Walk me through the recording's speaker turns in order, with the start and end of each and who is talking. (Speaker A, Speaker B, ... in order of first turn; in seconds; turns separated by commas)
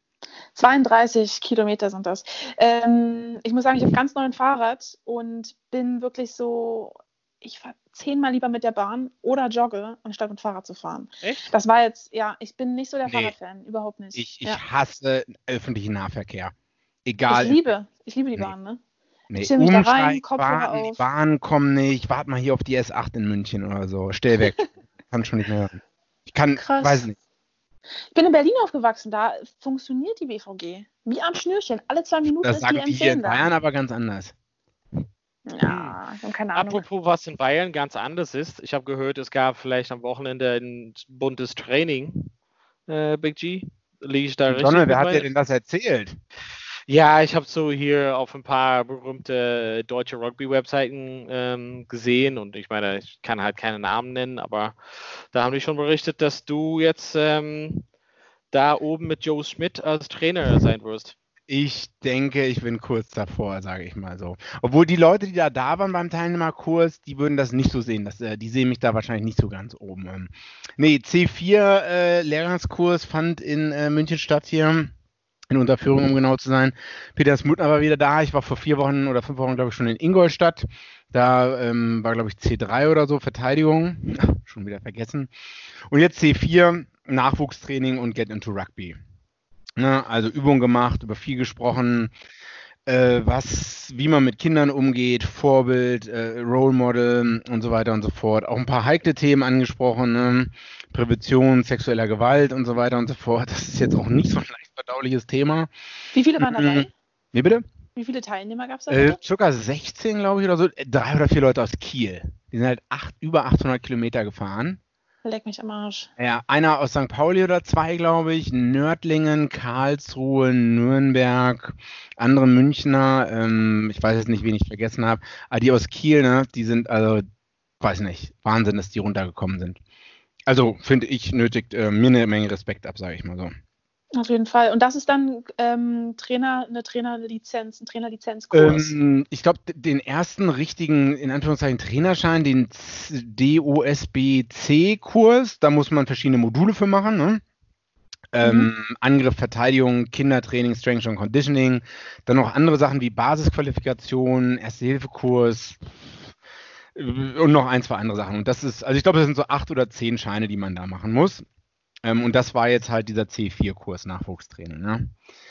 Speaker A: 0.5-14.6, Speaker B: 11.2-11.5, Speaker C: 13.1-13.3, Speaker C: 14.1-16.5, Speaker C: 17.0-17.6, Speaker A: 17.3-18.8, Speaker C: 19.3-27.1, Speaker A: 19.4-21.0, Speaker A: 26.6-27.1, Speaker A: 28.1-33.5, Speaker C: 32.4-34.3, Speaker A: 35.5-36.8, Speaker B: 35.6-36.0, Speaker B: 36.5-42.3, Speaker B: 42.9-45.2, Speaker C: 44.5-46.2, Speaker B: 46.9-54.8, Speaker B: 55.3-57.8, Speaker B: 58.5-61.1, Speaker C: 61.5-74.9, Speaker C: 75.5-85.3, Speaker C: 85.9-89.0, Speaker C: 89.8-92.1, Speaker C: 92.8-105.7, Speaker A: 106.1-106.9, Speaker C: 106.4-107.6, Speaker A: 108.0-109.2, Speaker C: 108.9-114.8, Speaker A: 115.2-116.1, Speaker C: 116.2-127.2, Speaker C: 127.8-129.8, Speaker C: 130.5-133.5, Speaker A: 134.2-138.9, Speaker C: 138.5-147.4, Speaker C: 148.3-156.3, Speaker A: 148.4-148.7, Speaker C: 156.9-161.4, Speaker C: 162.0-165.1